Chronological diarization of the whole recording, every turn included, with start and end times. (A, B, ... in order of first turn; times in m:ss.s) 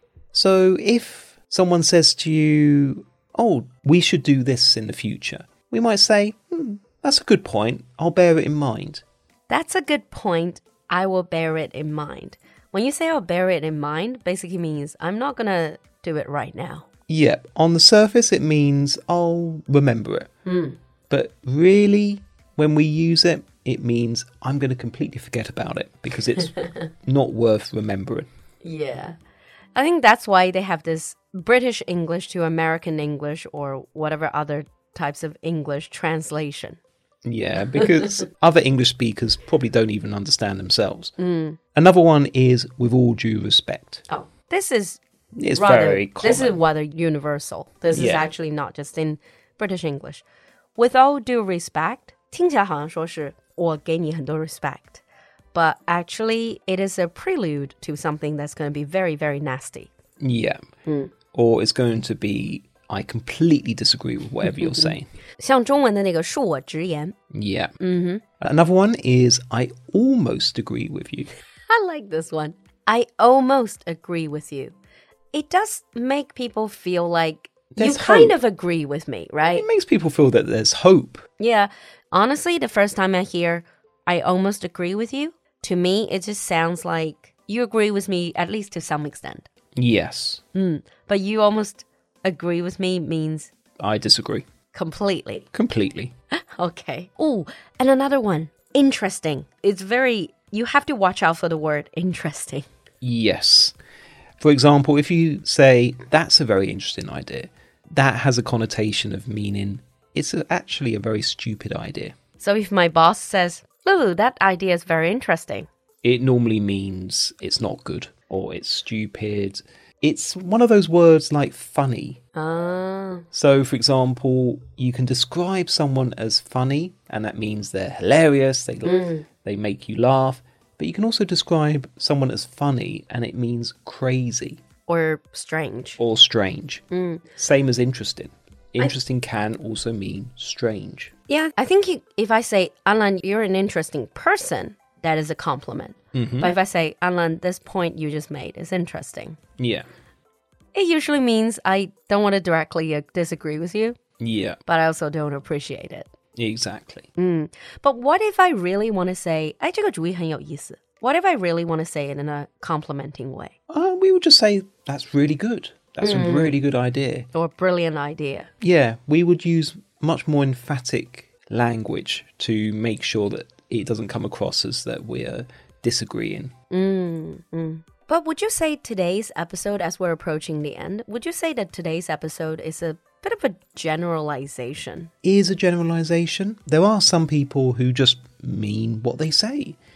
0:00.3-0:09.0 A
0:09.5-0:16.9 B
0:17.1-0:20.3 A
0:20.5-0:20.8 B
0:21.1-0:28.3 A
0:28.6-0:29.2 B
0:29.8-0:36.8 B
0:37.2-0:41.1 A
0:37.7-0:38.1 B
0:41.2-0:41.6 B
0:41.8-0:44.0 A
0:44.1-0:45.0 B
0:45.4-0:46.6 A
0:45.5-0:50.2 B
0:47.9-0:48.3 A
0:50.8-0:55.0 B
0:55.5-0:59.9 B
1:00.2-1:00.6 A
1:00.9-1:01.1 B
1:01.3-1:05.1 A
1:04.4-1:07.2 B
1:07.3-1:07.7 A
1:07.8-1:08.2 B
1:08.4-1:11.3 A
1:11.7-1:14.8 B
1:15.3-1:19.7 B
1:17.7-1:18.4 A
1:19.4-1:21.3 A
1:21.4-1:29.5 B
1:29.8-1:30.4 A
1:30.5-1:33.5 B
1:33.8-1:34.4 A
1:34.7-1:35.5 B
1:35.5-1:36.1 A
1:36.6-1:42.7 B
1:43.0-1:43.8 A
1:44.4-1:52.1 A
1:52.4-1:55.7 B
1:56.0-2:02.2 A
2:02.4-2:03.3 B
2:03.3-2:14.6 A
2:08.8-2:09.2 B
2:14.9-2:16.0 B
2:16.0-2:16.8 A
2:16.9-2:17.3 B
2:17.4-2:21.1 A
2:21.3-2:29.4 B
2:26.1-2:26.6 A
2:29.6-2:29.9 A
2:30.7-2:34.0 B
2:34.2-2:34.6 A
2:34.7-2:36.1 B
2:36.4-2:37.1 A
2:37.2-2:43.5 B
2:43.7-2:47.3 A
2:46.0-2:46.6 B
2:47.3-2:48.5 B
2:48.6-2:56.5 A
2:56.7-3:05.1 B
3:05.2-3:09.8 A